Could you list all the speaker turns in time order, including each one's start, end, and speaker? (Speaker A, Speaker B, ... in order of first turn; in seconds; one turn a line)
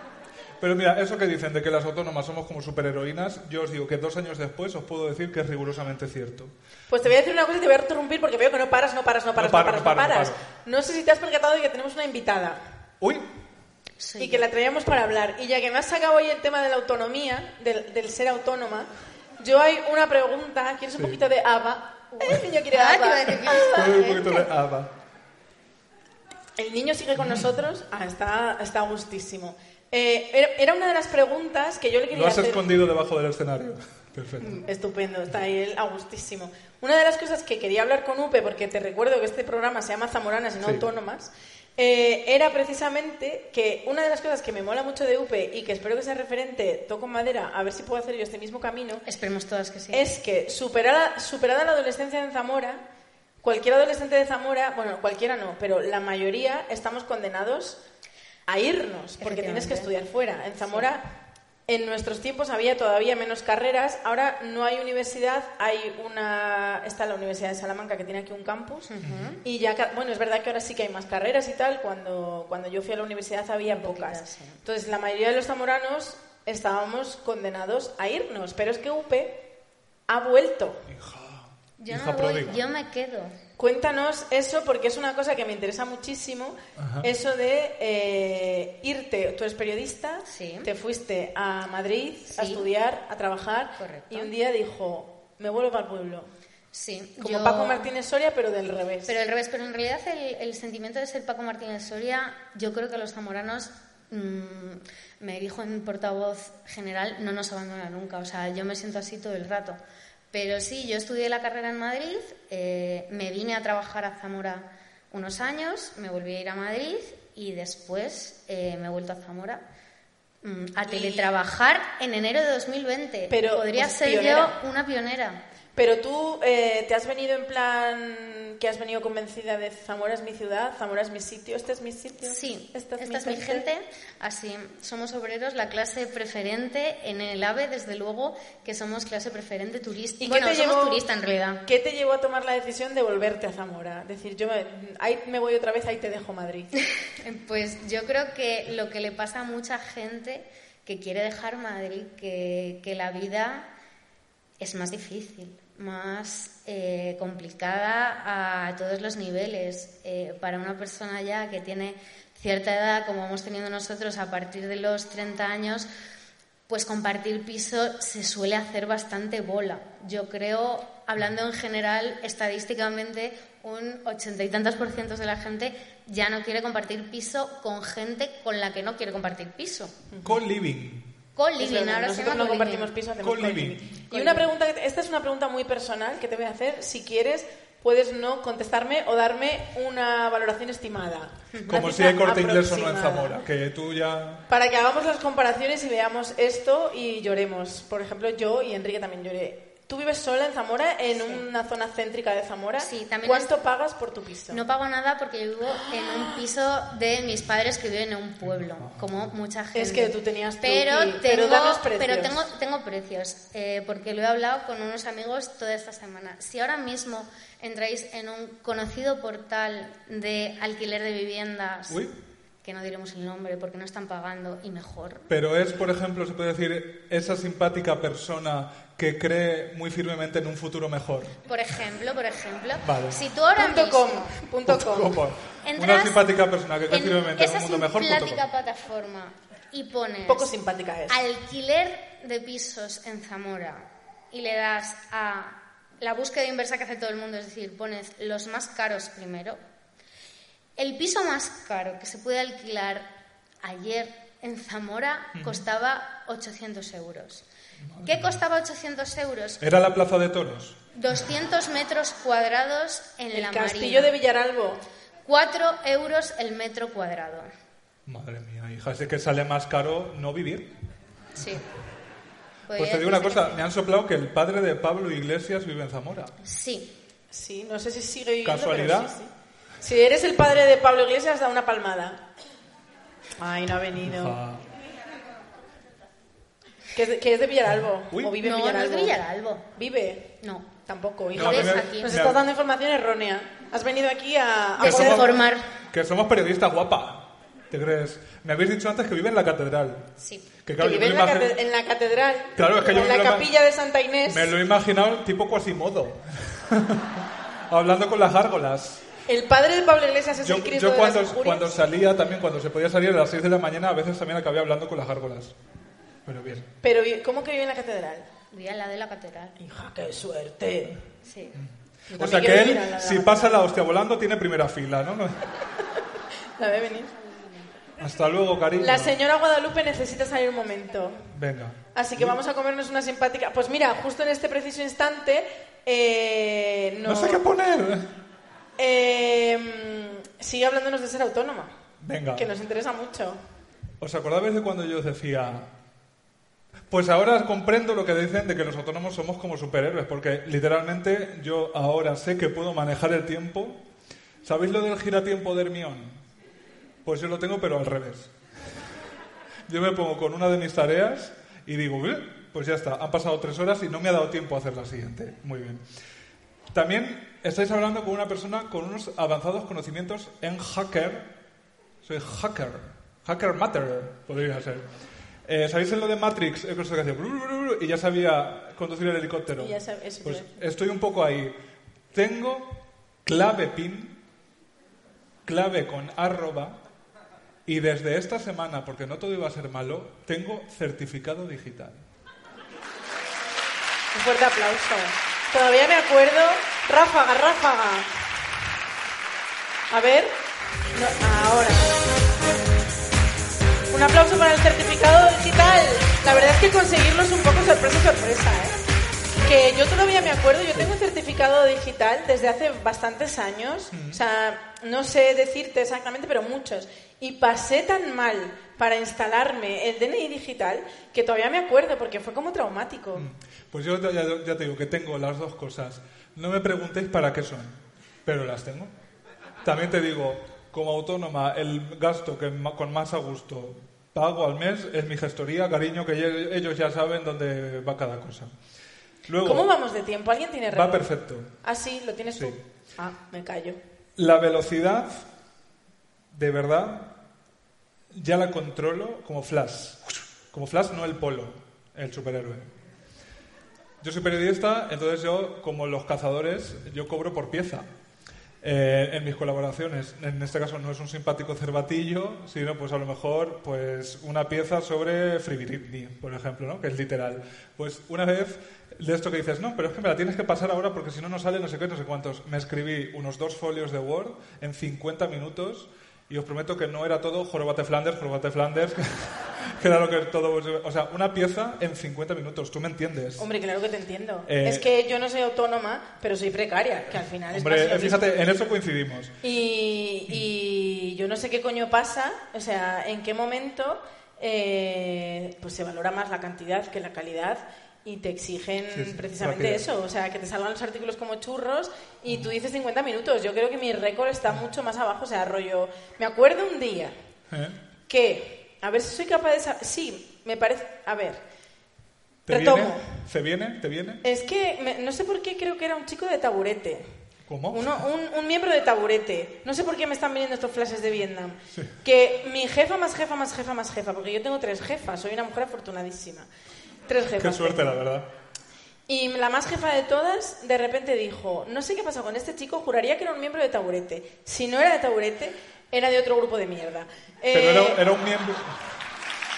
Speaker A: 0.6-6.5
Speaker B: 6.9-12.6
Speaker A: 9.3-10.4
Speaker A: 13.0-13.2
Speaker C: 14.0-14.4
Speaker B: 14.2-24.2
Speaker C: 22.7-24.4
Speaker A: 23.7-24.9
Speaker B: 26.6-32.6
Speaker A: 27.2-27.5
Speaker A: 32.1-34.6
Speaker B: 34.4-49.0
Speaker C: 49.0-50.1
Speaker B: 49.9-52.8
Speaker B: 53.4-57.8
Speaker B: 58.5-61.0
Speaker C: 59.2-59.9
Speaker B: 61.7-68.9
Speaker C: 68.9-69.4
Speaker A: 69.0-69.3
Speaker B: 69.4-79.4
Speaker C: 73.6-74.6
Speaker B: 80.1-80.8
Speaker A: 80.9-82.6
Speaker C: 81.8-83.3
Speaker B: 83.6-96.3
Speaker A: 86.8-87.1
Speaker C: 90.2-90.7
Speaker C: 92.3-92.7
Speaker C: 93.8-94.3
Speaker C: 96.7-97.9
Speaker B: 97.2-99.1
Speaker C: 99.1-109.8
Speaker C: 110.3-119.6
Speaker C: 120.4-125.4
Speaker B: 120.9-121.3
Speaker B: 123.3-124.6
Speaker B: 125.8-133.7
Speaker C: 132.2-141.6
Speaker B: 140.2-141.0
Speaker B: 141.7-146.7
Speaker C: 147.2-153.7
Speaker C: 154.6-165.9
Speaker C: 166.7-179.9
Speaker B: 180.1-180.4
Speaker A: 180.2-181.1
Speaker C: 181.3-182.9
Speaker B: 181.6-193.3
Speaker A: 183.2-184.1
Speaker A: 191.7-194.4
Speaker B: 194.5-204.6
Speaker C: 202.8-203.5
Speaker C: 204.5-222.0
Speaker B: 205.7-206.4
Speaker A: 208.5-209.0
Speaker B: 209.7-212.5
Speaker C: 222.6-225.3
Speaker A: 225.3-231.4
Speaker C: 231.4-234.3
Speaker A: 232.8-233.2
Speaker B: 233.6-235.1
Speaker A: 234.7-238.4
Speaker C: 235.6-236.2
Speaker C: 236.9-240.5
Speaker B: 240.3-241.2
Speaker C: 241.1-249.6
Speaker C: 250.8-253.1
Speaker C: 253.6-257.4
Speaker A: 255.3-255.6
Speaker A: 257.8-258.4
Speaker C: 258.0-259.6
Speaker A: 259.6-260.8
Speaker C: 260.9-264.1
Speaker B: 263.3-264.8
Speaker C: 265.2-267.5
Speaker A: 268.1-270.7
Speaker C: 271.4-271.6
Speaker C: 272.7-273.6
Speaker A: 272.8-276.4
Speaker C: 276.4-276.9
Speaker B: 277.3-282.2
Speaker A: 278.4-279.1
Speaker B: 283.4-284.4
Speaker A: 284.0-284.6
Speaker B: 286.9-289.2
Speaker A: 287.7-288.3
Speaker C: 288.4-289.7
Speaker B: 289.7-290.3
Speaker C: 290.4-290.7
Speaker B: 290.9-295.4
Speaker A: 291.3-292.4
Speaker C: 291.3-292.2
Speaker C: 294.8-295.6
Speaker A: 294.8-300.1
Speaker C: 300.2-300.5
Speaker A: 300.6-301.5
Speaker B: 300.8-304.5
Speaker A: 302.6-303.5
Speaker A: 304.2-309.1
Speaker B: 309.3-311.8
Speaker A: 310.4-315.5
Speaker A: 316.2-316.7
Speaker B: 316.8-318.3
Speaker C: 318.5-319.5
Speaker B: 319.6-321.0
Speaker C: 321.2-321.6
Speaker A: 321.6-325.4
Speaker B: 322.1-323.6
Speaker B: 326.6-327.1
Speaker C: 327.2-327.7
Speaker A: 328.0-329.1
Speaker B: 328.8-331.3
Speaker A: 331.3-332.4
Speaker B: 331.9-337.4
Speaker A: 337.0-338.1
Speaker B: 338.8-341.7
Speaker A: 342.0-342.5
Speaker B: 342.3-343.4
Speaker A: 344.0-345.7
Speaker A: 346.9-353.8
Speaker A: 354.4-356.2
Speaker A: 357.0-358.3
Speaker A: 359.7-365.8
Speaker A: 366.7-371.3
Speaker A: 372.0-374.8
Speaker A: 375.5-381.5
Speaker B: 379.6-380.5
Speaker A: 382.1-384.2
Speaker A: 385.4-386.8
Speaker A: 387.6-392.0
Speaker B: 394.1-398.1
Speaker B: 399.9-400.3
Speaker B: 400.9-402.0
Speaker B: 403.9-408.8
Speaker B: 409.4-423.3
Speaker A: 413.9-414.2
Speaker A: 423.1-428.9
Speaker A: 429.6-438.5
Speaker A: 439.3-439.7
Speaker B: 439.4-441.1
Speaker A: 440.7-441.5
Speaker B: 441.6-443.8
Speaker A: 442.3-442.6
Speaker A: 444.2-445.2
Speaker A: 446.3-447.1
Speaker A: 448.1-452.6
Speaker A: 454.0-457.9
Speaker A: 458.6-483.5
Speaker B: 483.4-488.3
Speaker A: 484.5-484.9
Speaker A: 487.5-489.3
Speaker B: 489.4-507.1
Speaker A: 498.9-499.8
Speaker A: 507.5-507.8
Speaker B: 508.1-511.4
Speaker B: 512.5-513.1
Speaker A: 512.5-514.2
Speaker B: 514.2-517.0
Speaker A: 517.5-518.0
Speaker B: 517.7-526.5
Speaker B: 527.1-528.0
Speaker A: 527.4-528.3
Speaker B: 529.1-538.0
Speaker A: 537.5-538.8